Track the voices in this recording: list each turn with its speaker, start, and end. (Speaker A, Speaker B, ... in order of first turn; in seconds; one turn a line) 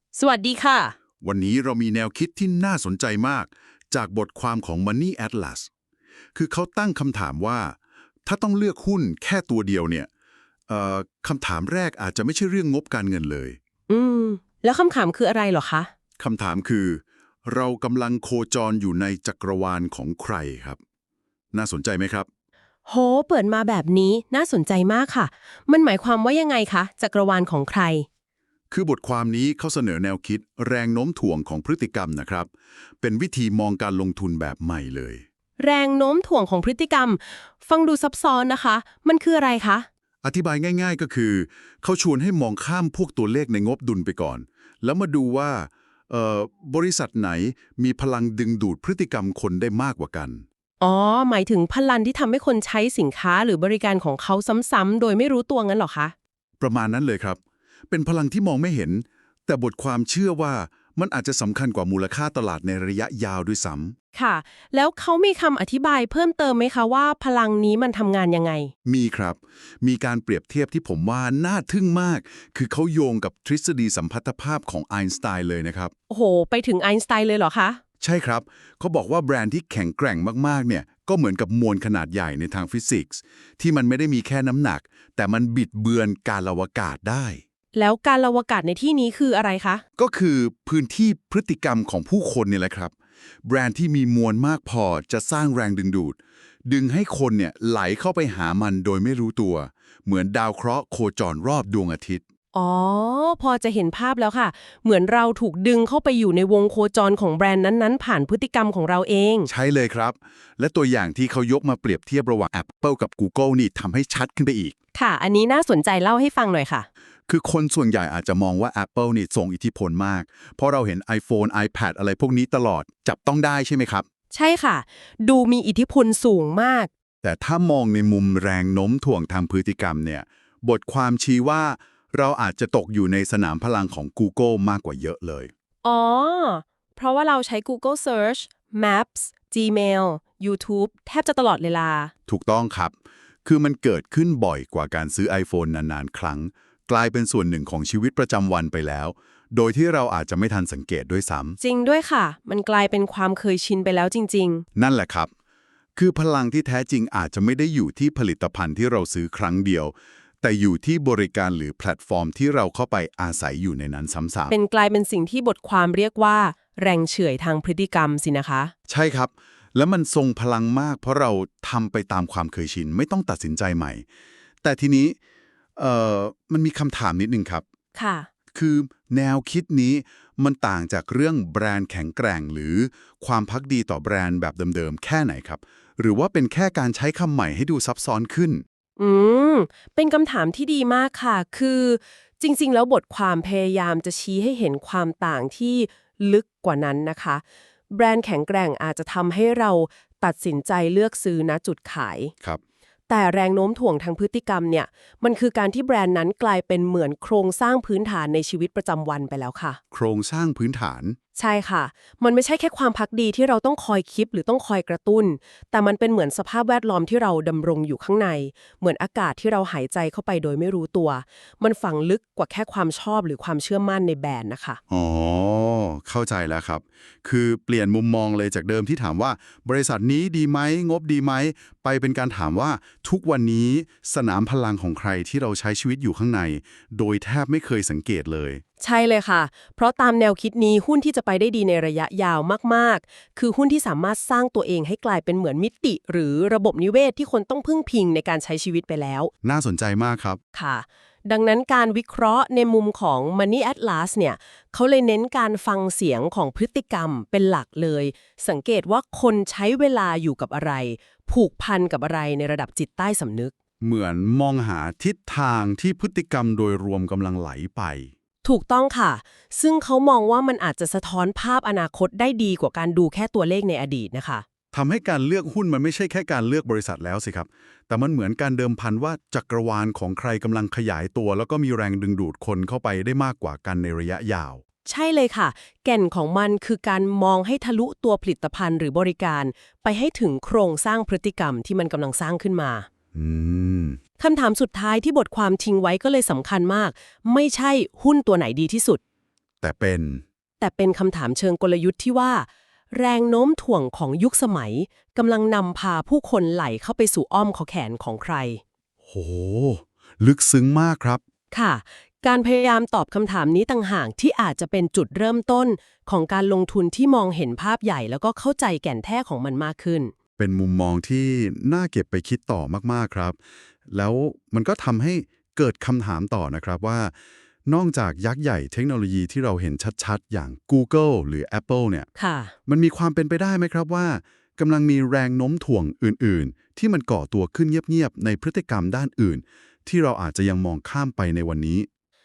Speaker A: 0.1-0.9
Speaker B: 1.2-5.7
Speaker B: 6.3-10.1
Speaker B: 10.7-13.6
Speaker A: 13.9-15.9
Speaker B: 16.2-20.8
Speaker B: 21.5-22.3
Speaker A: 22.9-28.1
Speaker B: 28.7-32.5
Speaker B: 33.0-35.2
Speaker A: 35.6-39.9
Speaker B: 40.2-50.4
Speaker A: 50.8-56.1
Speaker B: 56.6-57.4
Speaker B: 57.9-63.9
Speaker A: 64.1-68.7
Speaker B: 68.8-75.9
Speaker A: 76.1-77.8
Speaker B: 78.0-87.4
Speaker A: 87.7-89.8
Speaker B: 90.0-92.9
Speaker B: 93.4-102.2
Speaker A: 102.5-109.5
Speaker B: 109.5-114.7
Speaker A: 114.9-116.9
Speaker B: 117.3-124.0
Speaker A: 124.3-126.9
Speaker B: 127.2-135.5
Speaker A: 135.8-142.1
Speaker B: 142.3-142.9
Speaker B: 143.4-151.6
Speaker A: 151.6-154.7
Speaker B: 154.8-155.3
Speaker B: 155.9-164.5
Speaker A: 164.5-168.7
Speaker B: 168.9-174.0
Speaker B: 174.6-175.2
Speaker B: 175.8-177.6
Speaker A: 177.9-178.3
Speaker B: 178.5-188.6
Speaker A: 189.0-202.3
Speaker A: 203.1-209.8
Speaker B: 209.9-211.2
Speaker A: 211.3-224.8
Speaker B: 224.9-238.6
Speaker A: 238.8-249.3
Speaker B: 249.4-250.4
Speaker A: 250.5-263.5
Speaker B: 263.8-268.1
Speaker A: 268.4-274.4
Speaker B: 274.7-284.6
Speaker A: 284.9-292.9
Speaker B: 293.1-294.0
Speaker A: 294.2-299.0
Speaker B: 299.6-300.2
Speaker A: 300.6-308.6
Speaker B: 309.1-311.2
Speaker A: 311.5-320.1
Speaker B: 320.4-323.4
Speaker B: 323.9-327.1
Speaker B: 327.6-332.1
Speaker A: 332.1-332.5
Speaker B: 332.7-341.9